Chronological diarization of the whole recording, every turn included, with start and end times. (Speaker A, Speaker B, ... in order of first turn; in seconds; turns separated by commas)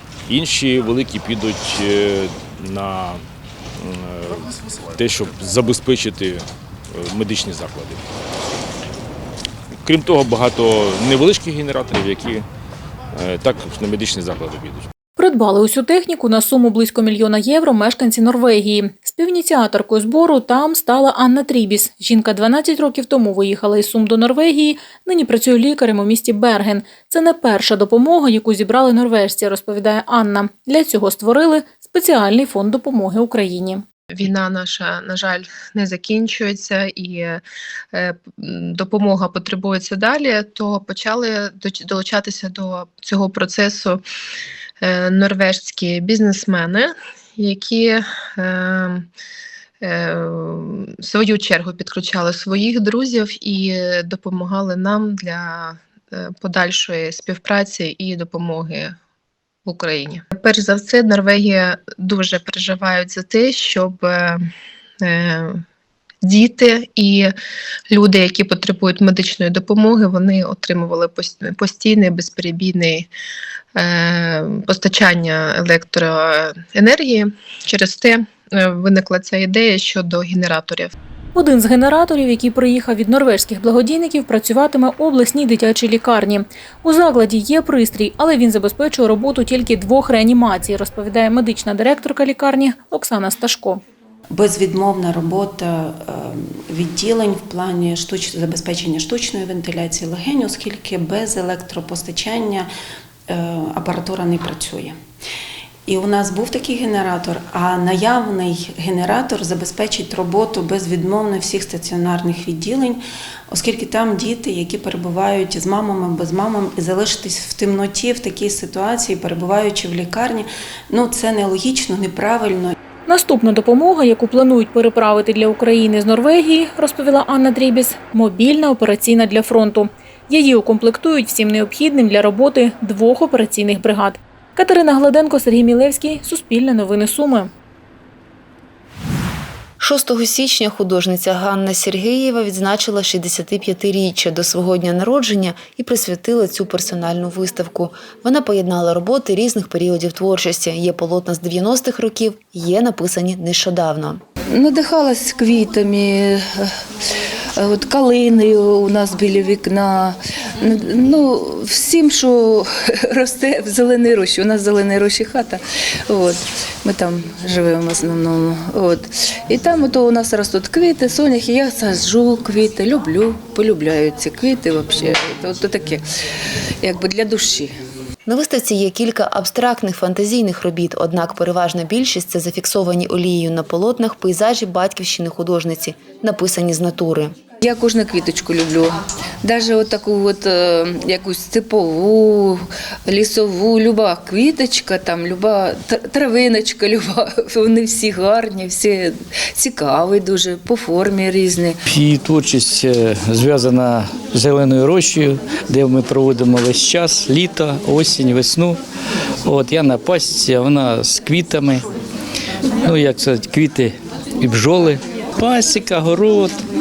Speaker A: 0.3-3.2, Speaker A: 3.8-4.4, Speaker A: 5.0-8.0, Speaker A: 9.8-12.4, Speaker A: 13.1-14.9, Speaker B: 15.2-33.8, Speaker C: 34.1-37.4, Speaker C: 37.9-44.0, Speaker C: 44.8-49.1, Speaker C: 49.8-58.9, Speaker C: 59.7-64.4, Speaker C: 65.0-65.6, Speaker C: 66.2-67.3, Speaker C: 67.9-73.1, Speaker C: 73.8-80.9, Speaker B: 81.3-93.8, Speaker D: 94.3-102.7, Speaker D: 103.3-105.0, Speaker D: 105.9-122.8, Speaker B: 123.1-137.5, Speaker E: 139.8-154.2, Speaker F: 154.5-156.7, Speaker F: 157.6-176.0, Speaker F: 176.8-177.7, Speaker E: 178.3-187.3, Speaker F: 187.6-201.8, Speaker G: 201.9-208.8, Speaker G: 209.5-211.8, Speaker G: 212.8-216.6